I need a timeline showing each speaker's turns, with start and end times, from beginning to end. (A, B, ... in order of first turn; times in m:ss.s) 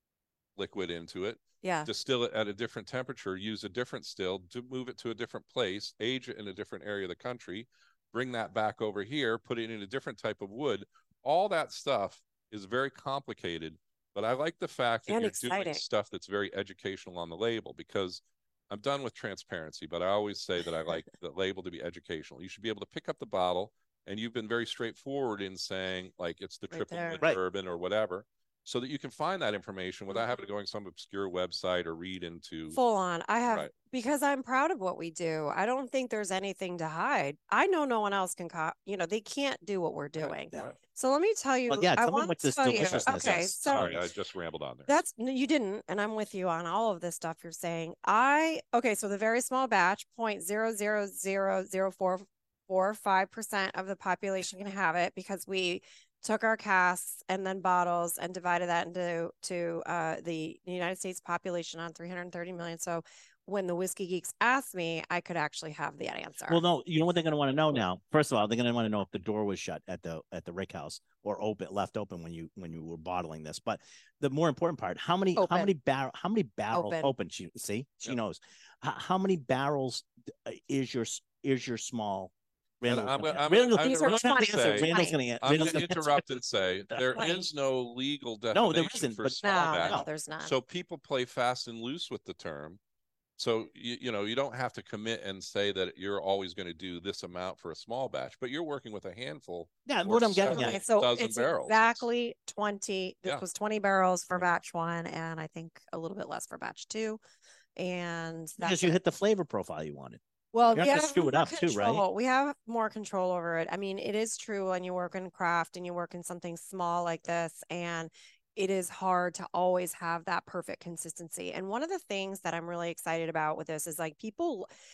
0:00.6-0:32.8 A
0:01.6-0:01.9 B
0:15.1-0:15.8 B
0:26.7-0:27.2 B
0:32.7-0:44.0 B
0:33.4-0:33.7 A
0:40.2-0:40.8 A
0:41.7-0:44.0 C
0:42.7-0:44.9 A
0:44.9-1:06.6 B
1:06.5-1:26.2 C
1:15.4-1:15.7 B
1:16.7-1:17.1 B
1:22.9-1:32.8 A
1:23.8-1:25.2 B
1:27.2-1:27.5 B
1:28.5-1:30.1 C
1:29.4-1:30.6 B
1:33.4-1:42.0 A
1:39.9-1:40.8 C
1:40.5-1:47.2 B
1:47.8-1:49.0 B
1:48.6-1:50.2 C
1:50.5-2:04.7 B
1:50.7-1:52.0 C